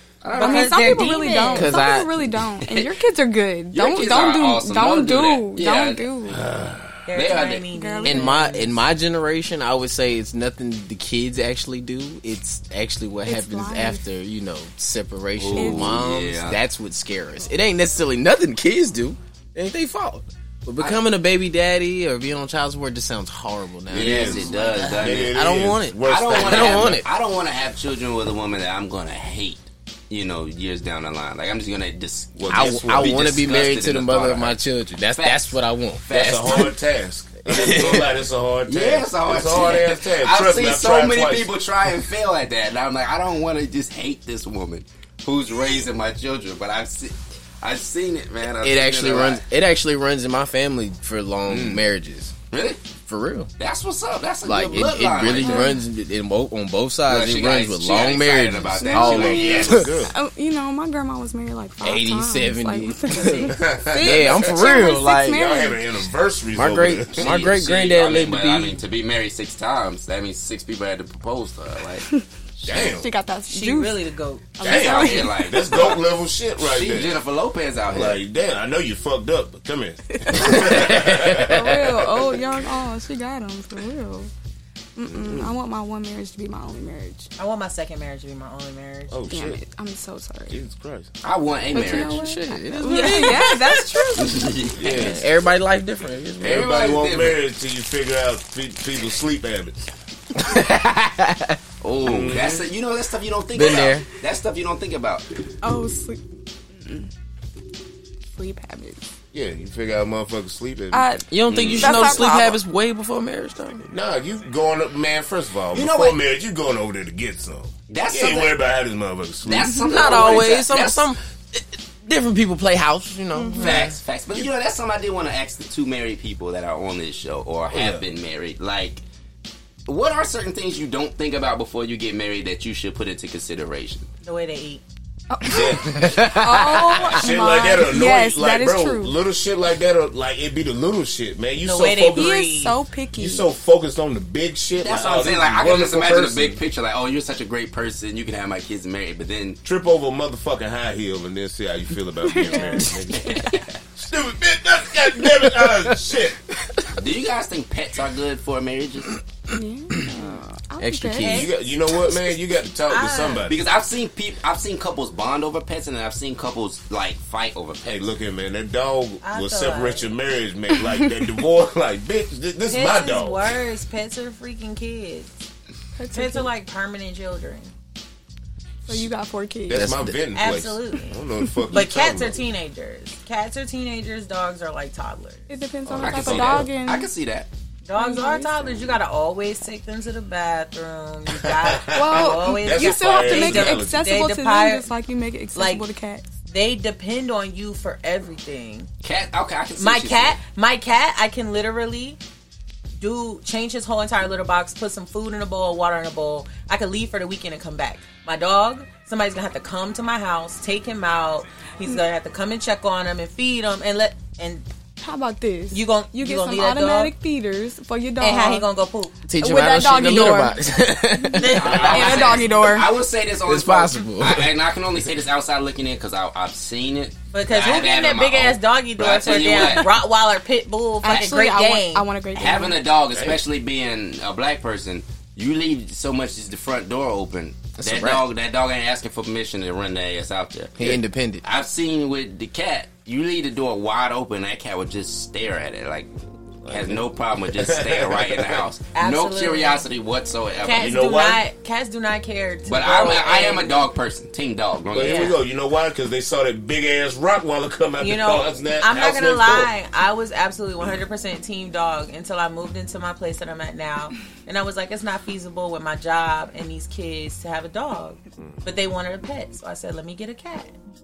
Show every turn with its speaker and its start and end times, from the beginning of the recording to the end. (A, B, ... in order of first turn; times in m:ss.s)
0:00.2-0:01.1 A
0:00.3-0:01.8 B
0:00.3-0:06.4 C
0:01.5-0:02.3 D
0:02.6-0:02.9 A
0:03.7-0:06.0 A
0:06.3-0:07.1 E
0:07.1-0:08.7 B
0:07.1-0:07.7 A
0:07.7-0:08.6 C
0:08.0-0:27.1 D
0:13.2-0:14.0 C
0:15.4-0:16.6 A
0:15.6-0:15.9 C
0:23.9-0:25.4 A
0:23.9-0:24.4 E
0:24.4-0:24.7 C
0:25.0-0:27.0 E
0:26.0-0:36.7 A
0:32.4-0:33.3 E
0:32.5-0:36.7 D
0:36.1-0:41.5 E
0:37.5-0:38.1 D
0:38.7-0:49.4 A
0:48.6-0:52.3 D
0:51.5-0:51.8 A
0:52.5-0:52.8 A
0:53.0-0:53.5 D
0:53.6-0:55.8 A
0:54.4-0:59.9 D
0:55.3-0:55.8 C
0:57.0-0:59.9 A
0:58.8-1:03.6 C
0:59.1-1:00.1 E
1:01.8-1:05.5 D
1:03.5-1:04.6 E
1:04.3-1:05.8 C
1:05.3-1:07.4 E
1:06.5-1:08.8 D
1:07.1-1:13.0 A
1:12.6-1:13.1 E
1:12.8-1:15.7 C
1:13.5-1:14.6 B
1:14.6-1:16.0 A
1:14.6-1:17.2 E
1:16.6-1:18.2 A
1:17.9-1:22.3 E
1:20.2-1:24.3 C
1:20.8-1:21.4 D
1:25.0-1:27.3 C
1:27.4-1:29.2 B
1:29.1-1:29.6 E
1:29.3-1:30.6 C
1:30.5-1:31.1 E
1:31.2-1:32.3 A
1:31.7-1:34.5 C
1:31.7-1:33.7 D
1:34.1-1:35.2 A
1:34.8-1:35.3 E
1:34.9-1:36.7 D
1:36.4-1:39.8 E
1:36.4-1:37.4 A
1:40.4-1:41.6 D
1:41.8-1:45.2 A
1:42.0-1:42.7 E
1:43.5-1:44.1 D
1:45.6-1:46.2 C
1:46.8-1:47.1 C
1:48.3-1:49.1 C
1:49.3-1:51.1 E
1:50.9-1:51.2 C
1:51.3-1:53.9 D
1:51.5-1:52.3 A
1:51.8-1:52.6 C
1:53.9-2:00.4 E
1:55.7-1:56.2 A
1:57.9-1:58.6 A
1:59.4-2:01.1 A
1:59.8-2:04.0 D
2:03.3-2:03.8 C
2:03.6-2:09.0 A
2:07.7-2:08.0 E
2:09.9-2:14.1 A
2:14.2-2:14.8 B
2:15.3-2:19.2 C
2:15.4-2:22.4 E
2:15.9-2:16.8 D
2:21.6-2:22.8 B
2:22.1-2:23.5 C
2:23.2-2:26.6 E
2:24.8-2:29.6 A
2:29.6-2:36.4 E
2:32.3-2:33.5 C
2:32.4-2:32.8 B
2:33.3-2:33.6 A
2:36.9-2:39.2 A
2:39.5-2:41.4 C
2:40.8-2:41.5 D
2:41.2-2:41.6 B
2:41.2-2:43.6 E
2:42.9-2:43.5 B
2:43.5-2:48.0 A
2:47.8-2:53.5 E
2:49.2-2:50.1 B
2:52.7-2:55.5 B
2:56.0-2:56.5 C
2:56.1-2:57.7 B
2:58.8-3:00.0 C
2:59.7-3:02.4 E
2:59.7-3:00.2 D
3:00.3-3:05.5 B
3:05.5-3:07.1 C
3:05.8-3:06.7 E
3:06.0-3:07.5 A
3:07.8-3:14.9 B
3:08.0-3:09.0 C
3:11.3-3:14.0 E
3:11.9-3:16.3 C
3:15.5-3:15.8 B
3:16.5-3:18.9 B
3:19.0-3:20.4 A
3:19.8-3:22.2 B
3:23.0-3:34.6 B
3:35.0-3:38.7 C
3:35.7-3:37.1 B
3:38.2-3:39.3 B
3:39.3-3:41.9 D
3:39.4-3:42.9 C
3:41.4-3:42.5 B
3:41.6-3:50.0 A
3:43.4-3:44.5 D
3:47.3-3:52.0 B
3:51.0-3:52.8 C
3:52.3-4:06.1 A
3:53.1-3:53.4 E
3:57.8-3:58.2 D
4:00.8-4:01.4 D
4:06.6-4:08.6 E
4:06.7-4:11.0 A
4:08.9-4:09.8 B
4:10.6-4:13.8 B
4:10.8-4:11.4 E
4:12.6-4:15.4 A
4:14.9-4:19.7 E
4:15.0-4:15.4 B
4:18.0-4:30.7 B